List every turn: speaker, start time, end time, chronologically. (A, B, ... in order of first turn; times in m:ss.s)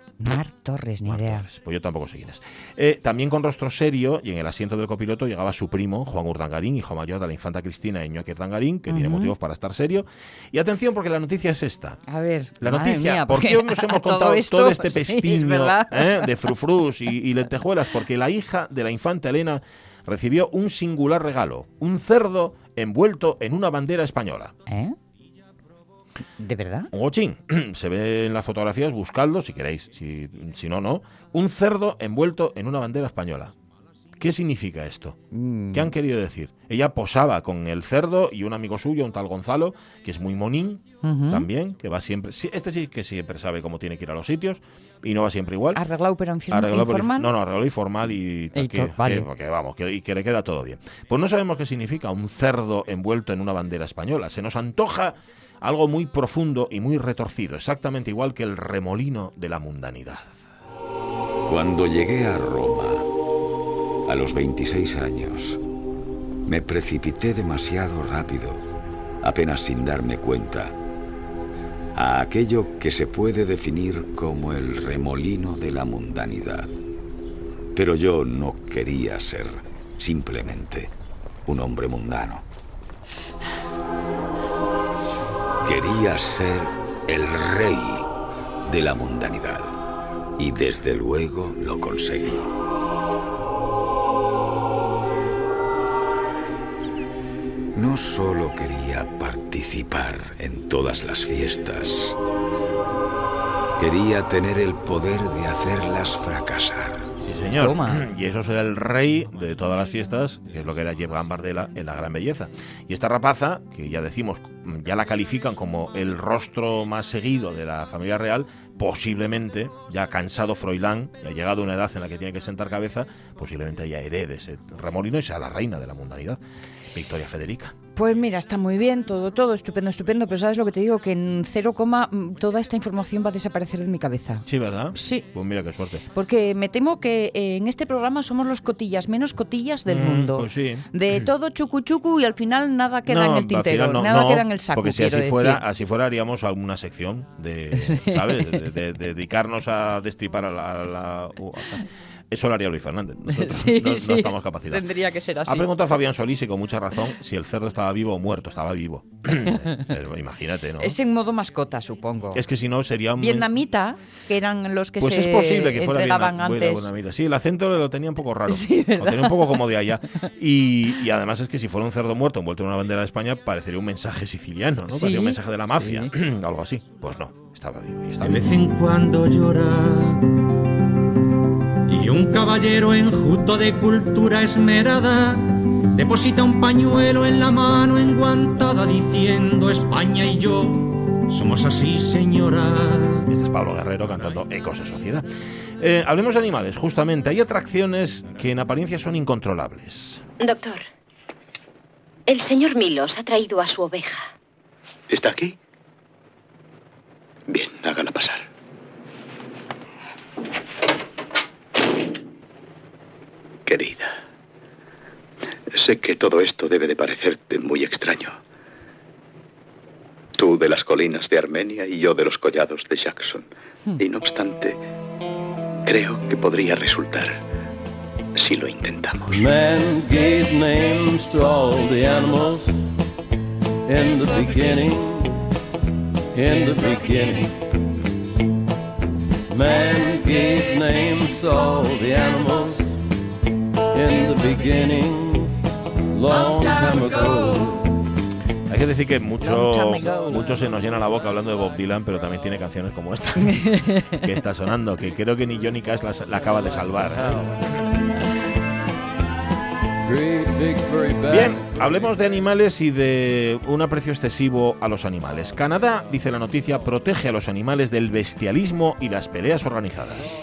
0:00.2-0:01.5 A
0:01.0-0:12.0 B
0:08.9-0:09.3 A
0:12.1-0:16.5 A
0:12.6-0:24.5 B
0:24.7-0:25.0 A
0:26.4-0:26.9 A
0:26.9-0:33.5 B
0:34.2-0:35.2 B
0:35.3-0:35.9 A
0:35.7-0:45.8 B
0:41.0-0:41.5 A
0:45.8-0:47.3 A
0:46.5-1:00.4 B
0:48.6-0:49.3 A
1:01.5-1:03.1 C
1:04.1-1:05.6 C
1:06.5-1:08.6 C
1:09.2-1:10.8 C
1:12.0-1:16.7 C
1:17.8-1:20.9 C
1:21.5-1:22.4 C
1:25.6-1:28.1 C
1:28.6-1:29.7 C
1:30.4-1:32.5 C
1:37.8-1:42.2 C
1:43.8-1:47.1 C
1:47.2-2:06.4 B
1:47.6-1:48.1 A
2:06.9-2:07.8 B
2:08.0-2:15.3 A
2:14.5-2:16.0 B
2:16.1-2:25.6 A
2:19.9-2:20.9 B
2:23.1-2:34.8 B
2:27.7-2:28.6 A
2:33.3-2:35.7 A
2:35.5-2:41.0 B
2:40.8-2:42.4 A
2:42.3-2:43.5 B
2:43.2-2:46.9 A
2:45.0-2:58.5 B
2:48.5-2:49.6 A
2:54.9-2:56.1 A
2:58.2-3:00.2 D
3:01.9-3:05.4 D
3:06.0-3:13.2 D
3:13.3-3:15.3 B
3:15.8-3:20.2 B
3:20.4-3:20.8 E
3:22.3-3:24.3 E
3:25.1-3:25.6 F
3:27.5-3:28.4 F
3:33.7-3:34.2 F
3:35.7-3:38.4 F
3:40.4-3:43.5 F
3:44.0-3:44.8 F
3:45.8-3:47.4 F
3:48.4-3:49.3 F
3:49.3-3:52.7 G
3:53.9-3:55.4 G
3:56.3-3:57.6 G
3:59.5-4:02.9 G
4:03.9-4:05.5 G
4:06.1-4:07.9 G
4:08.7-4:17.4 B
4:09.4-4:10.5 A
4:10.0-4:11.9 G
4:13.4-4:14.2 A
4:16.3-4:17.8 G
4:20.0-4:22.2 G
4:21.3-4:30.3 B